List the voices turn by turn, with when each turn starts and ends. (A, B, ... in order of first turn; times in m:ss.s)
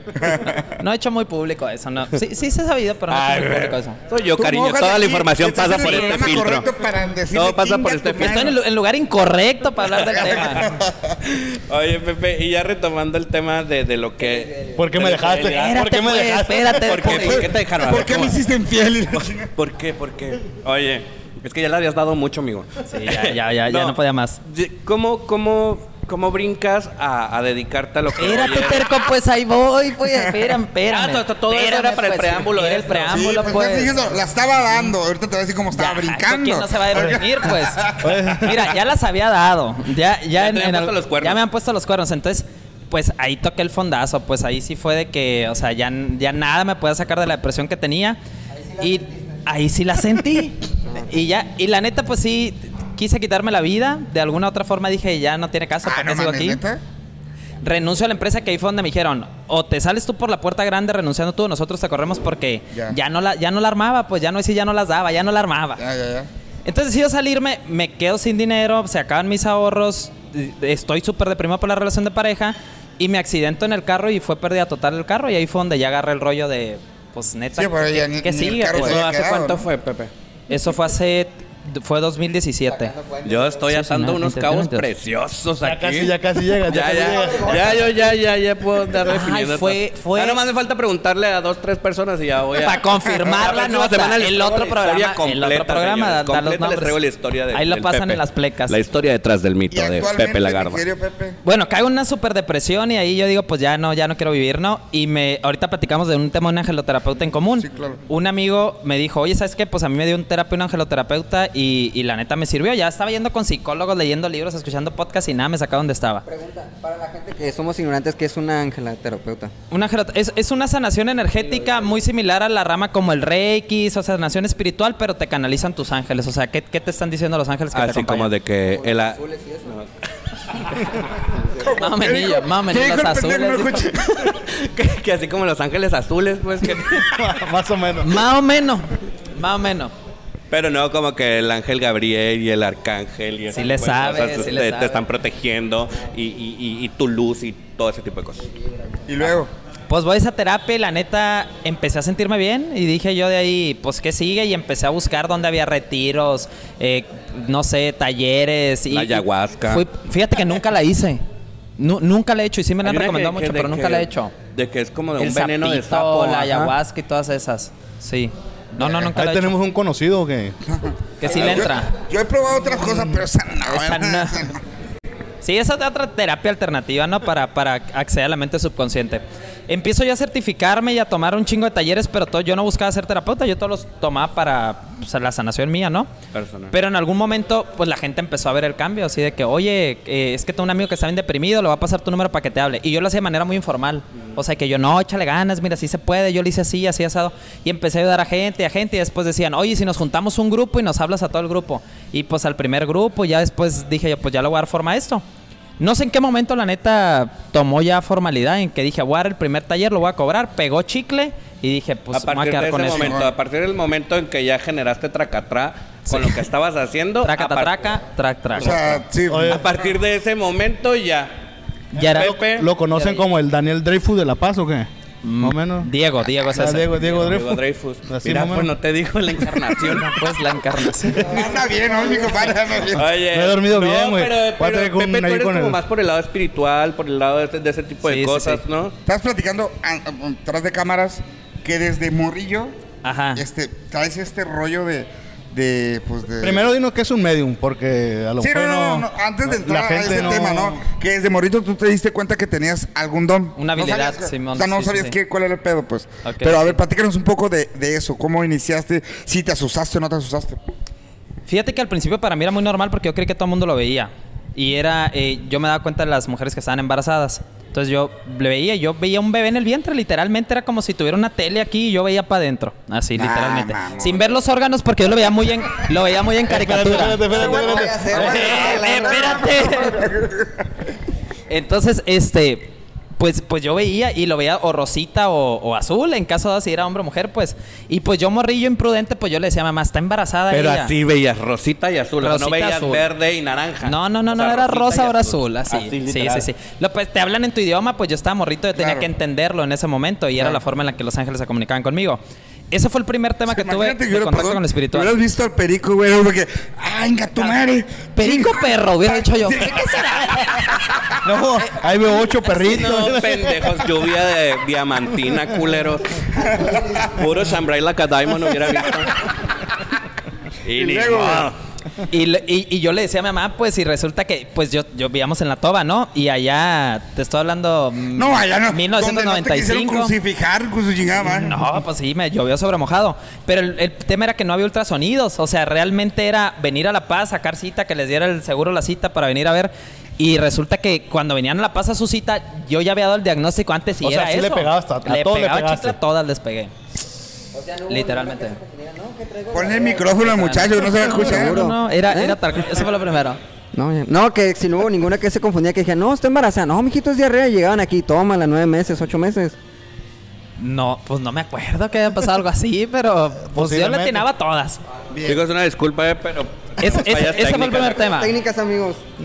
0:00.2-0:00.6 A
0:00.8-0:04.0 B
0:03.1-0:06.7 C
0:04.4-0:08.6 A
0:07.3-0:08.5 C
0:08.2-0:10.6 B
0:10.1-0:11.2 A
0:11.2-0:15.9 C
0:14.2-0:14.8 D
0:14.7-0:17.2 E
0:15.4-0:17.4 B
0:16.6-0:18.4 C
0:17.0-0:19.5 A
0:19.1-0:28.9 C
0:22.9-0:24.4 B
0:28.2-0:34.0 B
0:30.9-0:33.5 C
0:33.1-0:38.2 A
0:35.7-0:48.2 B
0:38.0-0:38.6 E
0:40.3-0:41.4 C
0:48.5-0:49.4 D
0:48.8-0:56.6 B
0:55.8-0:56.8 A
0:57.6-1:05.8 B
1:02.7-1:03.0 A
1:05.8-1:06.3 A
1:06.6-1:19.0 B
1:17.6-1:19.6 A
1:18.7-1:20.1 C
1:20.5-1:22.9 B
1:22.7-1:23.6 D
1:23.2-1:40.8 C
1:23.6-1:24.9 B
1:25.6-1:27.9 E
1:26.8-1:28.0 D
1:29.0-1:30.4 B
1:32.6-1:37.0 B
1:37.5-1:38.8 B
1:39.7-1:41.4 A
1:41.4-1:56.2 B
1:47.6-1:48.0 A
1:56.2-1:59.5 D
1:59.7-2:08.3 B
2:01.4-2:01.9 D
2:07.7-2:09.9 C
2:08.7-2:09.8 D
2:11.6-2:14.3 A
2:11.7-2:14.0 B
2:14.3-2:17.3 C
2:17.1-2:18.2 E
2:18.0-2:19.9 B
2:20.5-2:28.4 C
2:23.5-2:25.0 B
2:29.1-2:29.5 A
2:29.9-2:41.2 B
2:38.9-2:39.8 C
2:41.8-2:44.3 B
2:42.8-2:46.7 C
2:45.2-2:49.5 B
2:48.8-2:50.6 E
2:50.7-2:54.6 A
2:51.2-2:51.9 B
2:51.3-2:51.7 C
2:53.6-2:54.5 B
2:55.4-3:06.1 B
3:06.3-3:06.7 C
3:06.7-3:25.2 B
3:25.8-3:33.2 B
3:32.1-3:37.9 C
3:32.9-3:33.3 A
3:36.1-3:36.4 B
3:37.2-3:38.9 B
3:38.5-3:39.6 A
3:38.6-3:41.3 C
3:39.3-3:39.7 E
3:41.9-3:42.4 B
3:42.0-3:44.9 E
3:42.1-3:42.7 C
3:42.9-3:43.2 B
3:45.2-3:46.9 B
3:45.4-3:45.9 E
3:46.4-3:48.7 E
3:46.9-3:50.2 C
3:50.0-3:51.3 B
3:51.2-3:52.5 D
3:51.2-3:53.1 A
3:52.9-3:58.9 C
3:53.1-3:55.8 E
3:58.0-3:58.6 B
3:59.0-4:02.8 A
4:03.0-4:03.4 B
4:03.4-4:06.6 A
4:06.4-4:10.8 E
4:08.4-4:20.6 A
4:13.6-4:15.2 B
4:16.2-4:16.8 B
4:21.5-4:40.0 B
4:33.1-4:34.3 A
4:36.5-4:38.2 E
4:37.2-4:39.7 D
4:38.1-4:40.6 A
4:41.5-4:50.9 B
4:50.5-4:56.5 C
4:52.2-4:53.0 B
4:53.8-5:05.2 B
4:58.7-4:59.1 A
5:03.5-5:11.1 A
5:08.1-5:10.7 B
5:11.2-5:14.0 E
5:12.6-5:16.2 C
5:16.4-5:17.1 D
5:17.1-5:19.3 C
5:20.6-5:21.6 C
5:20.8-5:21.5 A
5:22.1-5:30.1 B
5:28.1-5:31.6 A
5:31.2-5:46.7 B
5:44.0-5:46.0 E
5:47.5-5:52.4 D
5:47.9-5:48.6 B
5:49.5-5:51.6 A
5:50.2-5:53.4 B
5:53.7-5:59.6 D
6:00.6-6:04.8 B
6:03.5-6:04.2 E
6:05.1-6:05.4 A
6:05.2-6:08.0 C
6:06.8-6:08.3 B
6:08.0-6:09.0 D